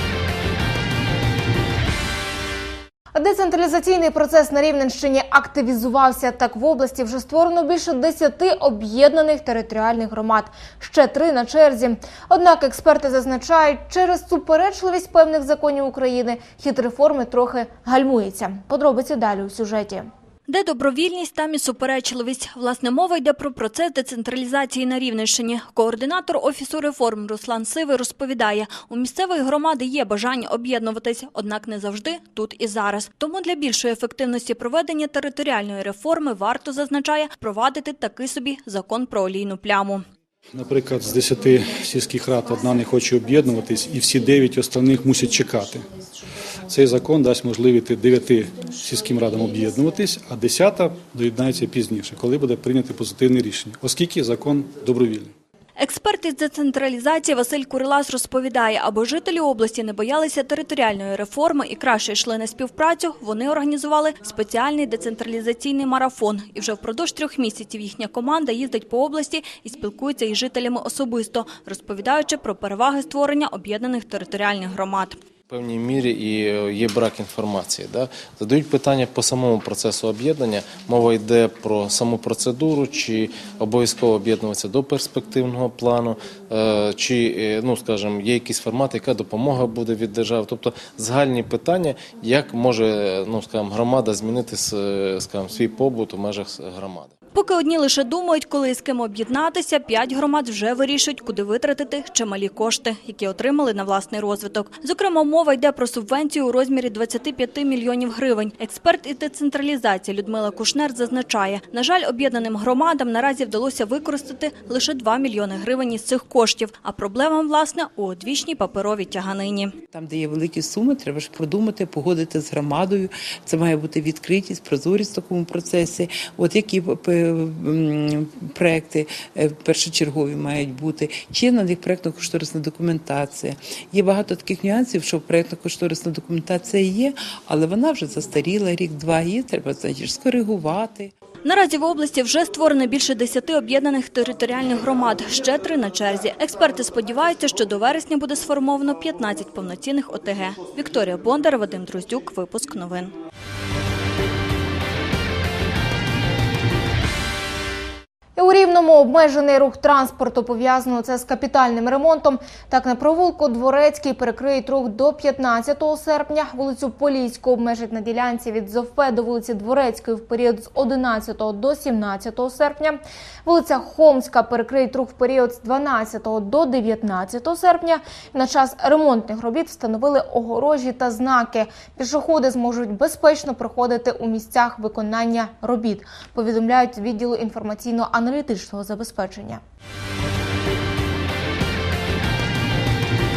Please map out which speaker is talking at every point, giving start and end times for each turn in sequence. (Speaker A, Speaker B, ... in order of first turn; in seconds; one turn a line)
Speaker A: 3.1-20.1
Speaker B: 20.5-40.0
Speaker C: 40.5-45.9
Speaker C: 46.7-55.3
Speaker B: 55.8-75.2
Speaker D: 75.5-97.1
Speaker B: 97.3-119.7
Speaker E: 119.9-141.1
Speaker B: 141.4-153.1
Speaker A: 158.3-189.6